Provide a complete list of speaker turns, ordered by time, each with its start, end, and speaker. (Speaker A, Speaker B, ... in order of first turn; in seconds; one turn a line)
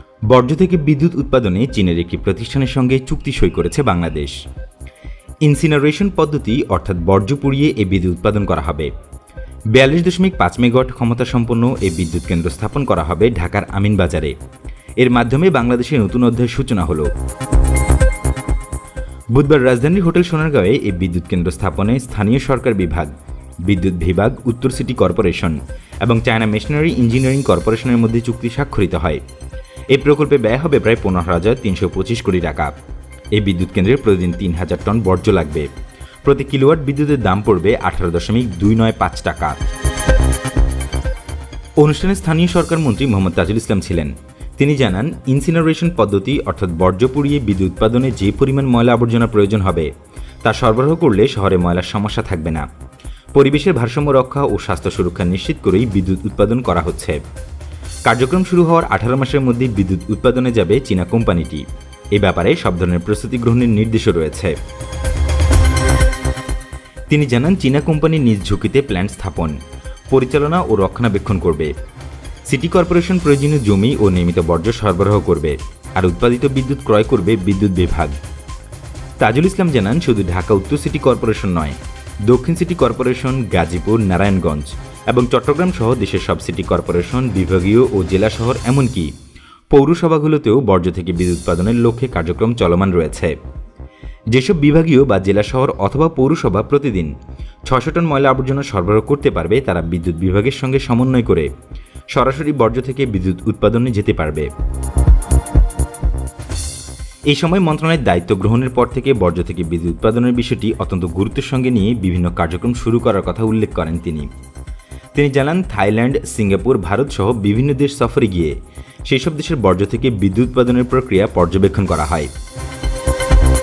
Speaker A: 0.3-4.4
Speaker A: 5.5-8.9
Speaker A: 9.7-14.3
Speaker A: 15.0-17.1
Speaker A: 19.3-23.1
Speaker A: 23.7-29.2
Speaker A: 29.9-32.7
Speaker A: 33.4-35.7
Speaker A: 36.2-39.6
Speaker A: 41.8-49.9
Speaker A: 50.5-52.7
Speaker A: 53.4-57.2
Speaker A: 58.1-64.6
Speaker A: 67.1-69.6
Speaker A: 70.1-71.7
Speaker A: 72.5-78.2
Speaker A: 79.2-81.8
Speaker A: 82.3-89.1
Speaker A: 89.7-93.4
Speaker A: 94.3-97.1
Speaker A: 97.7-101.5
Speaker A: 102.1-104.5
Speaker A: 107.3-114.3
Speaker A: 115.2-118.5
Speaker A: 119.1-122.3